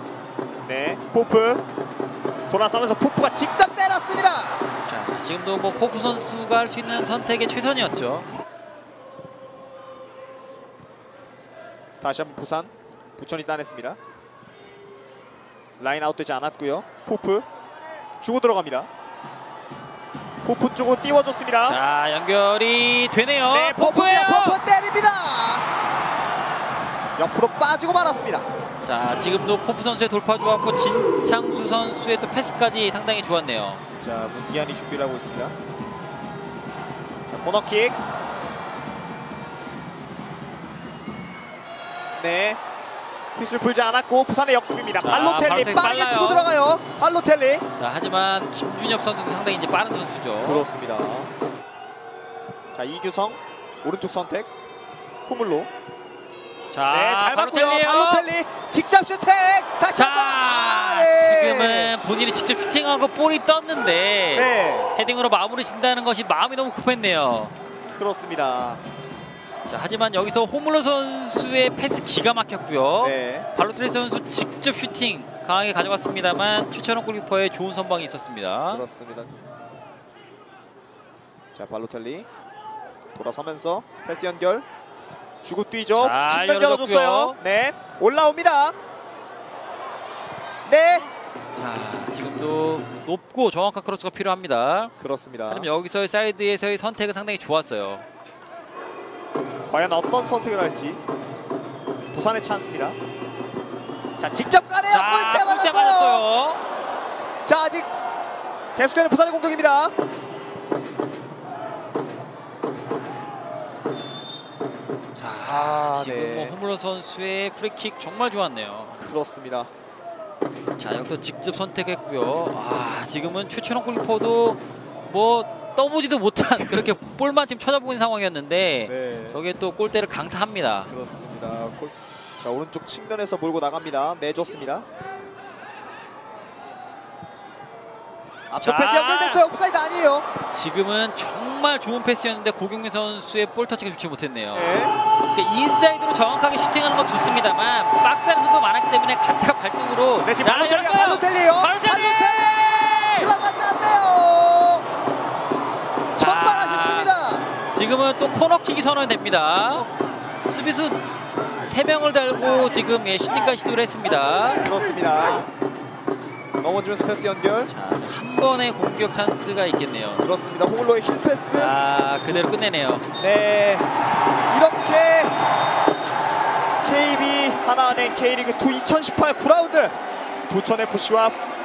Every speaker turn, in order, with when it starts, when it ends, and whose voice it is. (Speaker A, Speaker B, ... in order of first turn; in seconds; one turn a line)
Speaker A: 0.7-1.6
Speaker A: 2.5-4.6
Speaker B: 4.8-8.3
Speaker A: 12.0-14.0
Speaker A: 15.8-17.5
Speaker A: 18.2-18.9
Speaker A: 20.4-21.8
Speaker B: 21.7-24.6
Speaker A: 23.5-25.7
Speaker A: 27.2-28.5
Speaker B: 28.8-33.8
Speaker A: 34.0-35.6
Speaker A: 37.3-38.0
Speaker A: 42.2-42.6
Speaker A: 43.4-47.6
Speaker B: 45.0-46.5
Speaker B: 47.8-50.6
Speaker A: 50.4-51.3
Speaker A: 52.7-54.5
Speaker A: 55.3-55.7
Speaker B: 56.7-58.3
Speaker A: 56.9-62.0
Speaker B: 59.9-67.5
Speaker A: 64.3-64.9
Speaker A: 67.9-68.8
Speaker B: 69.7-78.8
Speaker A: 73.0-73.5
Speaker A: 78.7-79.3
Speaker A: 81.5-82.3
Speaker A: 83.1-84.7
Speaker A: 85.4-88.8
Speaker B: 86.0-87.4
Speaker A: 90.7-91.1
Speaker B: 91.6-94.9
Speaker A: 95.0-95.7
Speaker B: 95.5-98.1
Speaker A: 99.7-101.0
Speaker A: 102.1-103.0
Speaker A: 104.2-106.2
Speaker B: 104.9-106.6
Speaker A: 107.5-107.9
Speaker A: 108.8-109.9
Speaker B: 115.2-119.0
Speaker A: 115.5-116.6
Speaker A: 119.0-119.7
Speaker B: 120.8-130.9
Speaker A: 128.9-129.4
Speaker A: 130.9-134.9
Speaker A: 138.5-140.3
Speaker B: 138.6-139.4
Speaker B: 140.5-153.4
Speaker A: 144.5-144.9
Speaker A: 150.2-154.8
Speaker A: 156.1-157.5
Speaker B: 156.2-157.2
Speaker B: 157.7-159.9
Speaker B: 160.5-161.0
Speaker B: 161.6-164.6
Speaker A: 164.6-165.5
Speaker A: 166.6-167.7
Speaker B: 167.7-170.3
Speaker A: 170.2-171.7
Speaker B: 171.6-173.1
Speaker A: 173.2-173.9
Speaker A: 174.5-175.3
Speaker A: 176.8-179.9
Speaker A: 180.5-181.3